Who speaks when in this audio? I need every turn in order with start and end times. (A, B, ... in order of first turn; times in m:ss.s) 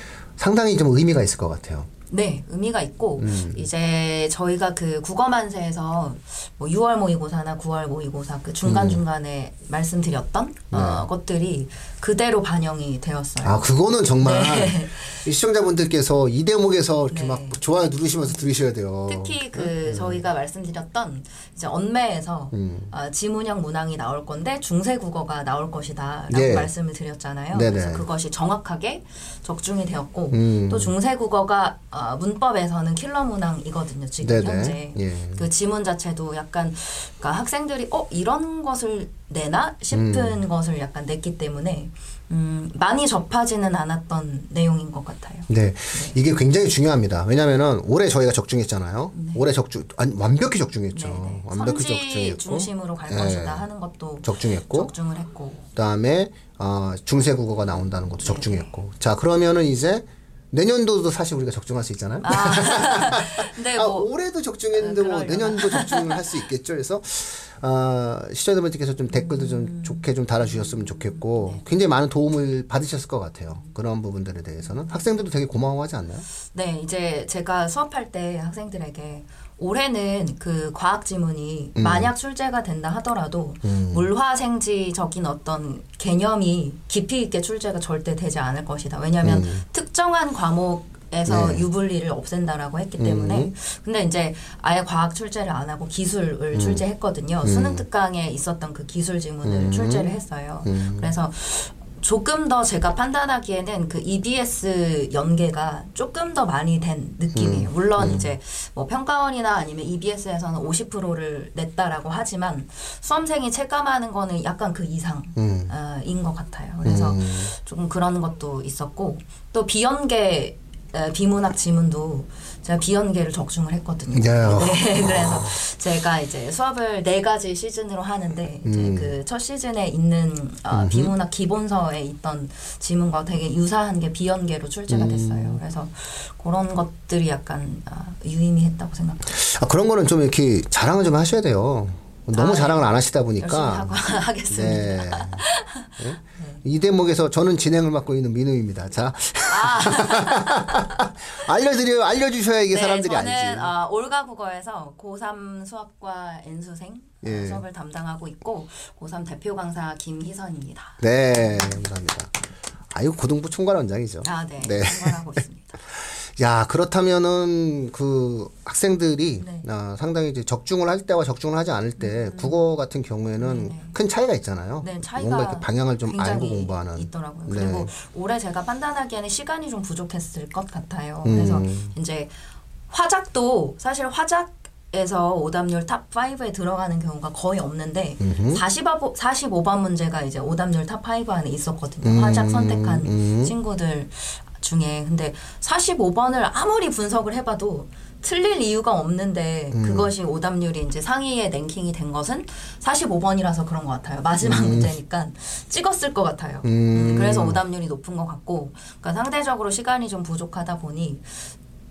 0:00.4-0:01.9 A
0:02.1-0:13.6 B
0:03.2-0:03.7 A
0:08.6-0:09.0 A
0:10.7-0:11.0 A
0:13.4-0:20.2 A
0:14.2-0:15.2 B
0:17.1-0:17.6 B
0:19.1-0:46.2 B
0:22.5-0:22.9 A
0:26.3-0:26.7 A
0:27.5-0:28.1 A
0:30.3-0:30.9 A
0:34.2-0:35.5 A
0:39.9-0:40.4 A
0:45.5-0:53.7 A
0:49.1-0:49.4 B
0:50.9-0:55.7 B
0:54.2-0:54.9 A
0:55.8-1:16.3 A
0:58.2-0:58.8 B
1:02.2-1:04.1 B
1:04.7-1:06.4 B
1:09.1-1:11.7 B
1:14.6-1:15.2 B
1:16.4-2:19.4 B
1:21.8-1:22.1 A
1:23.6-1:24.1 A
1:29.2-1:29.6 A
1:31.3-1:31.7 A
1:33.0-1:33.5 A
1:36.5-1:36.8 A
1:37.4-1:37.8 A
1:39.4-1:40.1 A
1:40.6-1:41.1 A
1:47.3-1:48.3 A
1:55.4-1:55.7 A
1:56.8-1:57.5 A
2:04.1-2:05.6 A
2:08.6-2:09.2 A
2:10.7-2:11.1 A
2:14.9-2:15.6 A
2:19.3-2:25.4 A
2:22.3-2:26.6 B
2:26.0-2:33.7 A
2:29.5-2:31.1 B
2:32.7-2:41.9 B
2:37.2-2:37.6 A
2:41.0-2:42.3 A
2:42.9-2:57.9 A
2:44.2-2:45.8 B
2:49.4-2:49.7 B
2:52.0-2:52.7 B
2:53.4-2:54.0 B
2:54.8-3:02.3 B
3:01.2-3:01.9 A
3:02.9-3:31.5 B
3:08.2-3:08.6 A
3:12.0-3:13.5 A
3:19.7-3:20.1 A
3:24.4-3:24.9 A
3:26.6-3:27.6 A